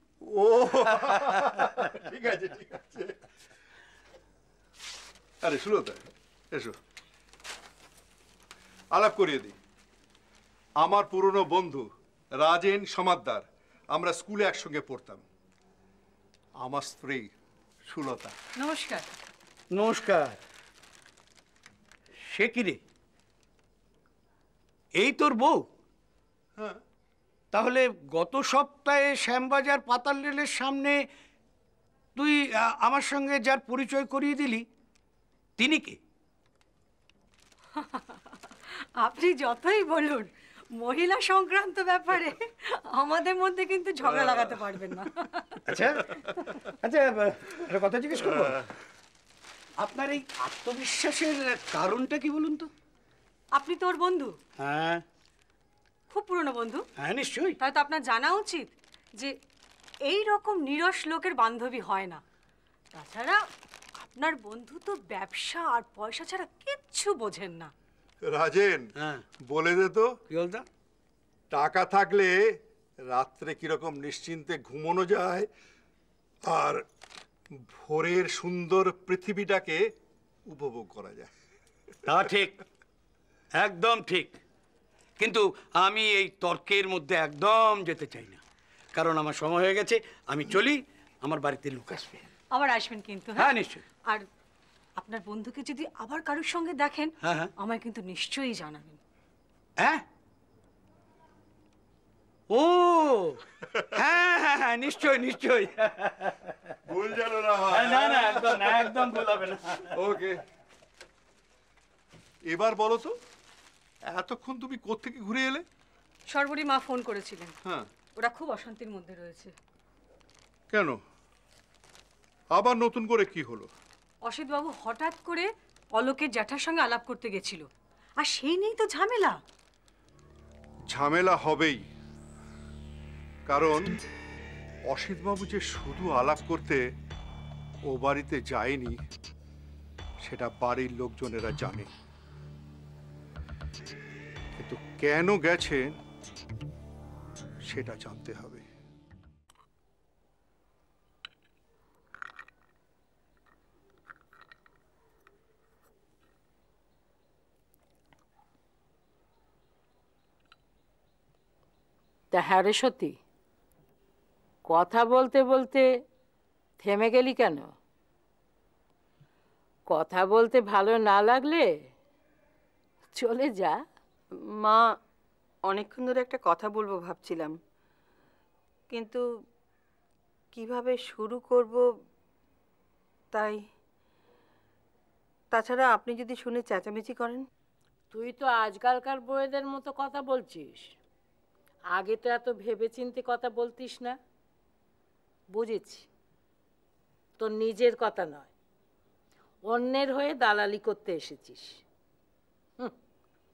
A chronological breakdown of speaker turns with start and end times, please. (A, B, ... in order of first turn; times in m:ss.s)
0:00.3-0:03.2 A
0:05.4-0:06.7 A
0:08.9-0:09.6 A
0:10.8-0:11.8 A
0:12.4-0:15.2 A
0:16.6-0:17.3 A
0:17.9-0:18.3 A
0:18.6-0:19.1 B
0:19.7-0:20.4 C
0:22.2-0:22.8 C
0:25.0-0:25.7 C
0:27.5-0:31.0 C
0:32.2-0:34.7 C
0:35.6-0:36.0 C
0:37.8-0:38.4 B
0:39.0-0:46.7 B
0:45.7-0:46.0 C
0:46.6-0:48.7 C
0:49.8-0:52.7 C
0:53.5-0:54.4 B
0:54.6-0:55.0 C
0:56.1-0:56.8 B
0:57.0-0:57.6 C
0:57.6-0:59.3 B
1:00.0-1:02.2 B
1:02.9-1:03.4 B
1:04.0-1:07.7 B
1:08.2-1:08.8 A
1:09.0-1:09.2 C
1:09.5-1:10.1 A
1:10.3-1:10.6 C
1:11.5-1:12.3 A
1:13.1-1:15.5 A
1:16.5-1:16.8 A
1:17.7-1:19.8 A
1:20.5-1:21.3 A
1:22.0-1:22.6 C
1:23.6-1:24.4 C
1:25.2-1:28.4 C
1:28.9-1:32.3 C
1:32.5-1:33.5 B
1:33.3-1:33.8 C
1:35.0-1:39.0 B
1:37.2-1:37.5 C
1:39.8-1:40.0 C
1:42.5-1:43.4 C
1:43.9-1:46.7 C
1:46.9-1:49.2 A
1:47.7-1:49.9 C
1:50.0-1:50.3 A
1:52.5-1:53.1 A
1:54.1-1:55.6 A
1:56.3-1:57.5 B
1:58.2-1:59.5 B
2:00.7-2:01.0 A
2:02.5-2:03.7 A
2:04.2-2:07.7 B
2:08.2-2:09.4 B
2:10.9-2:11.8 A
2:13.5-2:13.9 A
2:14.9-2:16.8 A
2:17.9-2:19.0 A
2:20.2-2:21.9 A
2:24.6-2:25.9 A
2:27.7-2:28.6 A
2:42.3-2:43.2 D
2:44.7-2:45.8 D
2:46.8-2:47.7 D
2:49.9-2:51.7 D
2:53.1-2:53.8 D
2:55.7-2:57.5 E
2:58.9-2:59.2 E
3:00.5-3:01.8 E
3:03.3-3:03.6 E
3:05.5-3:07.4 E
3:08.1-3:10.9 D
3:11.9-3:14.2 D
3:15.5-3:16.1 D
3:17.4-3:18.5 D
3:19.6-3:21.8 D